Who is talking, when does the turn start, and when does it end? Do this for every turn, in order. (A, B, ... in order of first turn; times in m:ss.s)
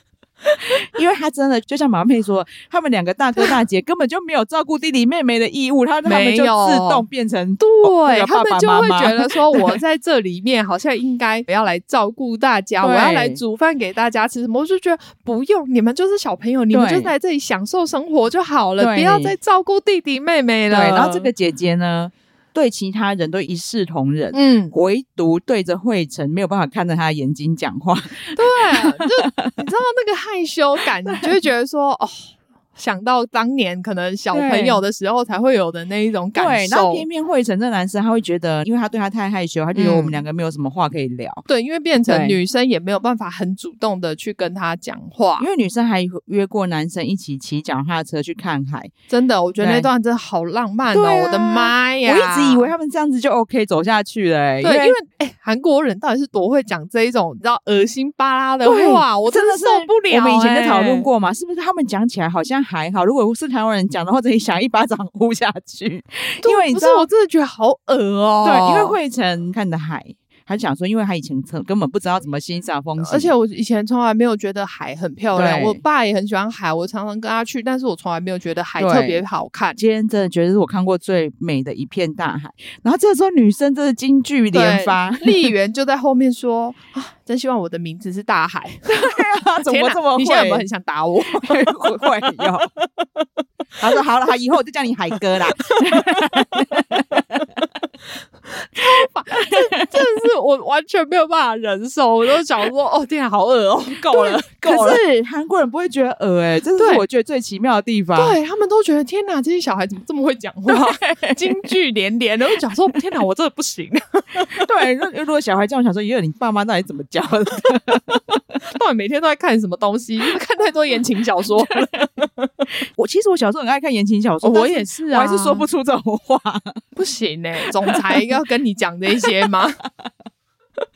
0:00.8-0:09.8 A
0:06.0-0:07.0 B
0:07.6-0:21.3 B
0:12.8-0:13.4 A
0:16.7-0:17.1 A
0:18.8-0:19.4 A
0:20.7-0:29.6 A
0:24.3-0:24.7 B
0:28.4-0:37.1 B
0:34.3-0:34.8 A
0:36.4-0:41.4 A
0:39.8-0:40.2 B
0:41.5-0:45.5 B
0:42.0-0:42.4 A
0:45.4-0:48.9 A
0:49.1-0:52.7 B
0:49.6-0:49.9 A
0:50.9-0:55.0 A
0:54.6-1:01.1 B
0:58.6-1:07.1 A
1:06.4-1:09.0 B
1:08.4-1:13.3 A
1:13.0-1:19.8 B
1:15.3-1:15.8 A
1:18.8-1:19.2 A
1:19.8-1:25.4 A
1:24.5-1:32.5 B
1:28.9-1:30.7 A
1:31.3-1:32.7 A
1:33.8-1:37.5 A
1:35.6-1:36.3 B
1:38.5-1:45.0 B
1:44.1-1:48.4 A
1:46.8-1:47.0 B
1:48.2-1:54.7 B
1:50.7-1:51.5 A
1:54.5-1:58.2 A
1:58.7-2:02.5 B
2:03.0-2:06.8 A
2:04.4-2:05.7 B
2:07.0-2:09.8 B
2:07.9-2:08.2 A